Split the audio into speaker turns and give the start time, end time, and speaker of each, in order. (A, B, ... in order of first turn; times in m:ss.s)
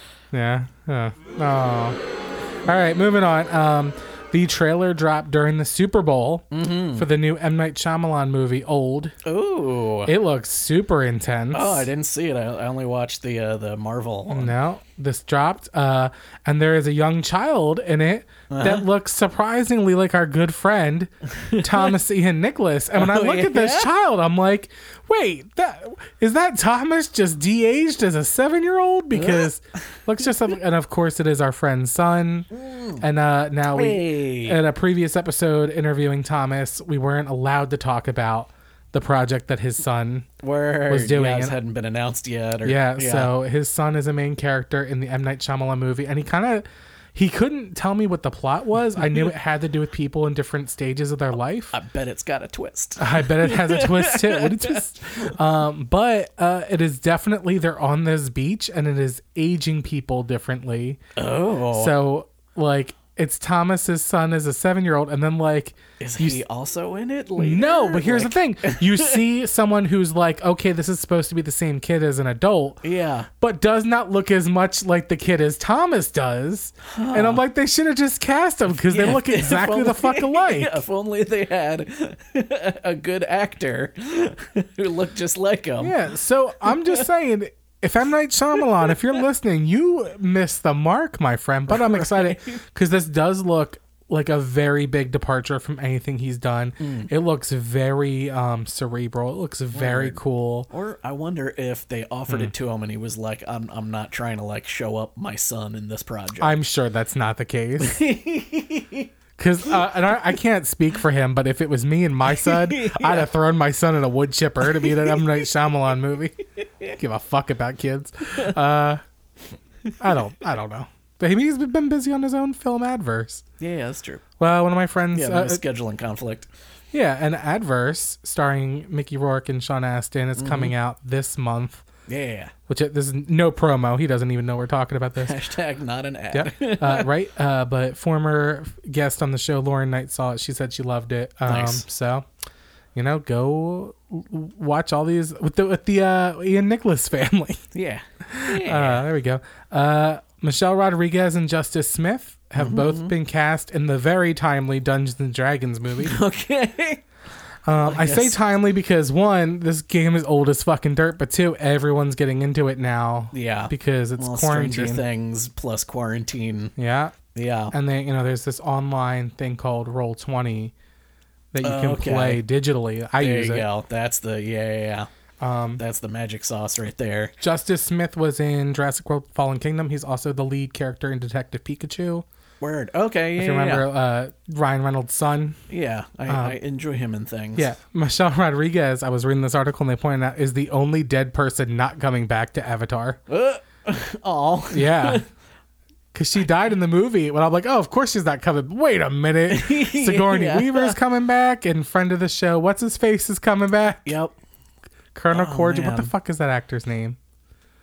0:00.3-0:02.0 A
0:02.6-0:09.1 A
0:06.5-0:07.0 B
0:09.2-0:10.1 B
0:10.0-0:11.9 A
0:11.5-0:14.5 B
0:14.3-0:40.3 A
0:18.5-0:18.8 B
0:21.4-0:21.9 B
0:22.9-0:23.9 B
0:29.1-0:29.5 B
0:32.5-0:33.0 B
0:33.7-0:34.6 B
0:40.4-0:43.3 B
0:40.9-0:41.6 A
0:42.6-0:51.8 A
0:51.7-0:55.3 B
0:53.0-1:01.0 A
1:01.2-1:02.0 B
1:01.7-1:06.4 A
1:06.0-1:09.2 B
1:07.4-1:12.8 A
1:12.8-1:13.3 B
1:13.4-1:20.8 A
1:16.8-1:17.4 B
1:18.9-1:26.0 B
1:25.8-1:40.7 A
1:26.6-1:27.0 B
1:31.7-1:32.6 B
1:36.8-1:37.1 B
1:39.7-1:40.2 B
1:40.7-1:46.6 B
1:46.4-1:48.0 A
1:47.8-1:49.1 B
1:49.4-1:56.4 A
1:52.4-1:53.3 B
1:54.8-1:55.2 B
1:56.9-1:59.0 A
2:00.0-2:03.4 A
2:03.6-2:04.2 B
2:04.4-2:05.6 A
2:05.1-2:06.5 B
2:06.9-2:11.8 A
2:10.4-2:10.7 B
2:12.1-2:12.5 B
2:12.7-2:15.4 A
2:15.2-2:17.1 B
2:16.3-2:22.2 A
2:21.4-2:21.8 B
2:22.9-2:27.6 A
2:27.7-2:29.0 B
2:28.2-2:36.1 A
2:32.6-2:33.1 B
2:36.0-2:37.0 B
2:37.6-2:45.0 A
2:37.8-2:38.4 B
2:43.3-2:46.7 B
2:46.8-2:47.1 A
2:47.3-2:47.7 B
2:47.7-2:50.7 A
2:51.5-2:53.7 A
2:51.6-2:52.4 B
2:53.2-2:55.1 B
2:55.4-2:55.8 A
2:55.8-2:57.3 B
2:57.4-3:02.2 A
3:02.6-3:03.8 B
3:03.4-3:05.6 A
3:05.7-3:07.7 B
3:06.3-3:06.6 A
3:07.6-3:13.2 A
3:13.3-3:15.2 B
3:14.7-3:15.2 A
3:16.1-3:24.1 A
3:19.5-3:21.0 B
3:24.0-3:24.3 B
3:25.1-3:27.2 A
3:25.3-3:26.1 B